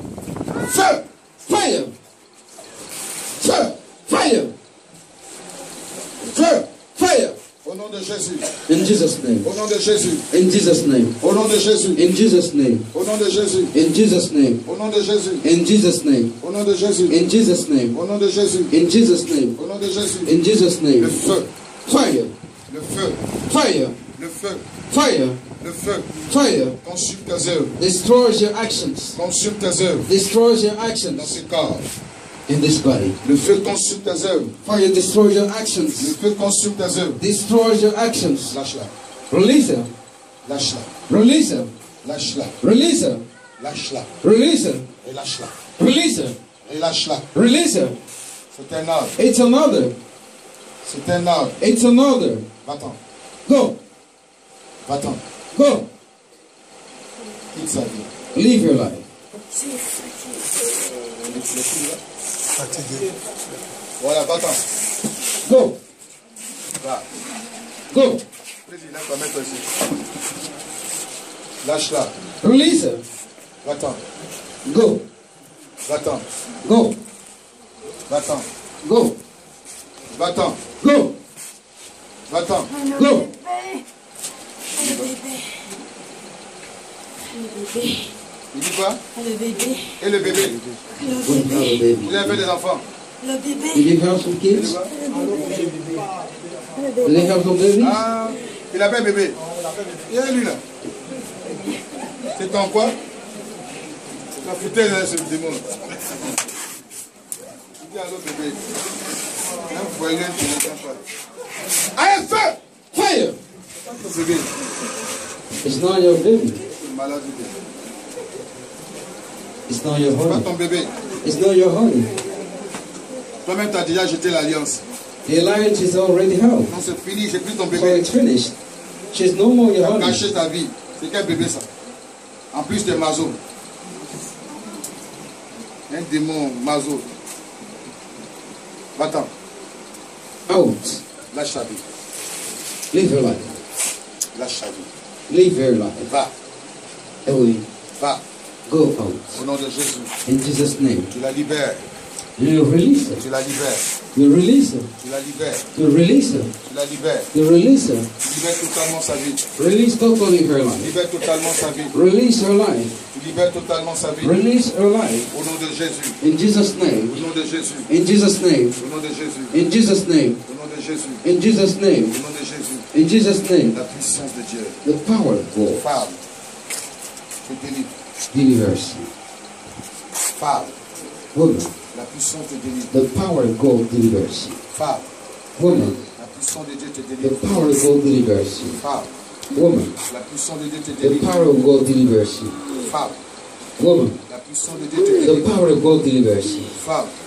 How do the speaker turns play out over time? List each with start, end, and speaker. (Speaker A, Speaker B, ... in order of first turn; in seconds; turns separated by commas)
Speaker A: 0.7-1.9, Speaker A: 3.4-4.5, Speaker B: 6.4-6.6, Speaker A: 6.4-7.4, Speaker B: 7.6-8.6, Speaker A: 8.7-9.5, Speaker B: 9.4-10.2, Speaker A: 10.3-11.2, Speaker B: 11.2-12.1, Speaker A: 11.9-12.9, Speaker B: 12.9-13.7, Speaker A: 13.7-14.6, Speaker B: 14.7-15.4, Speaker A: 15.4-16.4, Speaker B: 16.4-17.2, Speaker A: 17.1-18.0, Speaker B: 17.9-18.7, Speaker A: 18.7-19.6, Speaker B: 19.6-20.3, Speaker A: 20.2-21.3, Speaker B: 21.0-21.5, Speaker A: 21.9-22.3, Speaker B: 22.7-23.2, Speaker A: 23.5-24.0, Speaker B: 24.1-24.7, Speaker A: 24.9-25.4, Speaker B: 25.6-26.2, Speaker A: 26.3-26.8, Speaker B: 26.8-27.8, Speaker A: 27.8-29.2, Speaker B: 29.1-30.1, Speaker A: 30.1-31.4, Speaker B: 31.1-31.9, Speaker A: 32.5-33.2, Speaker B: 33.2-34.5, Speaker A: 34.6-36.1, Speaker B: 36.0-37.2, Speaker A: 37.2-38.6, Speaker B: 38.5-38.9, Speaker A: 39.3-39.9, Speaker B: 40.5-40.9, Speaker A: 41.1-41.7, Speaker B: 42.0-42.5, Speaker A: 42.6-43.3, Speaker B: 43.6-44.1, Speaker A: 44.2-44.9, Speaker B: 45.0-45.5, Speaker A: 45.8-46.4, Speaker B: 46.6-47.3, Speaker A: 47.3-48.0, Speaker B: 48.5-49.2, Speaker A: 49.2-50.0, Speaker B: 50.8-51.6, Speaker A: 51.6-52.5, Speaker B: 52.6-53.0, Speaker A: 53.5-53.8, Speaker B: 54.9-55.2, Speaker A: 55.5-55.9, Speaker B: 57.5-58.1, Speaker A: 58.3-59.1, Speaker B: 61.2-62.0, Speaker B: 64.0-64.6, Speaker A: 65.4-65.8, Speaker B: 66.8-67.1, Speaker A: 67.9-68.2, Speaker B: 68.7-69.8, Speaker B: 71.6-72.1, Speaker A: 72.4-73.0, Speaker B: 73.6-74.0, Speaker A: 74.7-75.0, Speaker B: 75.8-76.2, Speaker A: 76.6-77.0, Speaker B: 78.1-78.5, Speaker A: 78.8-79.2, Speaker B: 80.1-80.6, Speaker A: 80.8-81.2, Speaker B: 82.3-82.8, Speaker A: 82.9-83.4, Speaker C: 83.4-83.8, Speaker B: 84.8-85.2, Speaker C: 85.2-85.6, Speaker C: 87.4-88.1, Speaker B: 88.5-89.0, Speaker C: 89.2-89.9, Speaker B: 90.0-90.6, Speaker A: 91.1-92.4, Speaker B: 92.0-92.8, Speaker C: 93.3-93.6, Speaker A: 93.7-94.8, Speaker B: 94.5-95.0, Speaker C: 95.1-95.6, Speaker A: 97.0-98.0, Speaker B: 97.8-99.4, Speaker B: 100.1-100.6, Speaker B: 102.3-103.0, Speaker B: 104.4-105.7, Speaker B: 107.8-108.6, Speaker B: 109.7-111.0, Speaker A: 111.9-113.4, Speaker B: 113.9-114.5, Speaker A: 115.6-116.6, Speaker B: 116.8-117.5, Speaker A: 119.7-120.5, Speaker B: 120.2-120.9, Speaker A: 121.2-122.2, Speaker B: 123.4-124.8, Speaker A: 125.3-126.7, Speaker B: 126.7-128.1, Speaker A: 127.7-128.6, Speaker A: 129.1-130.2, Speaker B: 129.8-131.7, Speaker B: 132.5-133.4, Speaker B: 135.9-137.1, Speaker B: 139.0-139.3, Speaker A: 140.5-141.0, Speaker B: 141.3-141.8, Speaker A: 142.9-143.6, Speaker B: 144.3-144.9, Speaker A: 145.3-146.1, Speaker B: 146.1-146.3, Speaker A: 147.2-147.7, Speaker A: 148.7-149.4, Speaker B: 149.3-150.1, Speaker A: 150.3-151.1, Speaker B: 151.1-151.9, Speaker A: 152.4-153.2, Speaker B: 153.2-153.9, Speaker A: 154.2-154.9, Speaker B: 155.0-155.7, Speaker A: 155.8-156.6, Speaker B: 156.7-157.3, Speaker A: 157.3-158.1, Speaker B: 158.2-159.4, Speaker A: 159.6-160.9, Speaker B: 160.8-161.9, Speaker A: 161.9-163.0, Speaker B: 163.1-164.3, Speaker A: 164.2-165.3, Speaker B: 165.3-166.2, Speaker A: 166.2-167.2, Speaker B: 167.1-167.9, Speaker A: 167.9-168.8, Speaker B: 168.8-169.6, Speaker A: 169.5-170.4, Speaker B: 170.5-171.2, Speaker A: 171.2-172.2, Speaker B: 172.1-172.9, Speaker A: 172.9-173.8, Speaker B: 173.7-174.8, Speaker A: 174.8-175.8, Speaker B: 175.8-176.2, Speaker B: 177.4-177.9, Speaker A: 178.3-179.1, Speaker B: 180.4-180.8, Speaker A: 181.3-181.7, Speaker B: 181.9-182.9, Speaker A: 182.9-184.6, Speaker B: 184.7-185.1, Speaker A: 185.6-186.0, Speaker B: 186.1-187.8, Speaker A: 187.2-188.8, Speaker B: 188.8-189.1, Speaker A: 189.5-189.9, Speaker B: 190.1-191.6, Speaker A: 191.0-192.6, Speaker B: 192.8-193.2, Speaker A: 193.8-194.2, Speaker B: 194.3-195.5, Speaker A: 195.2-196.8, Speaker B: 196.7-197.1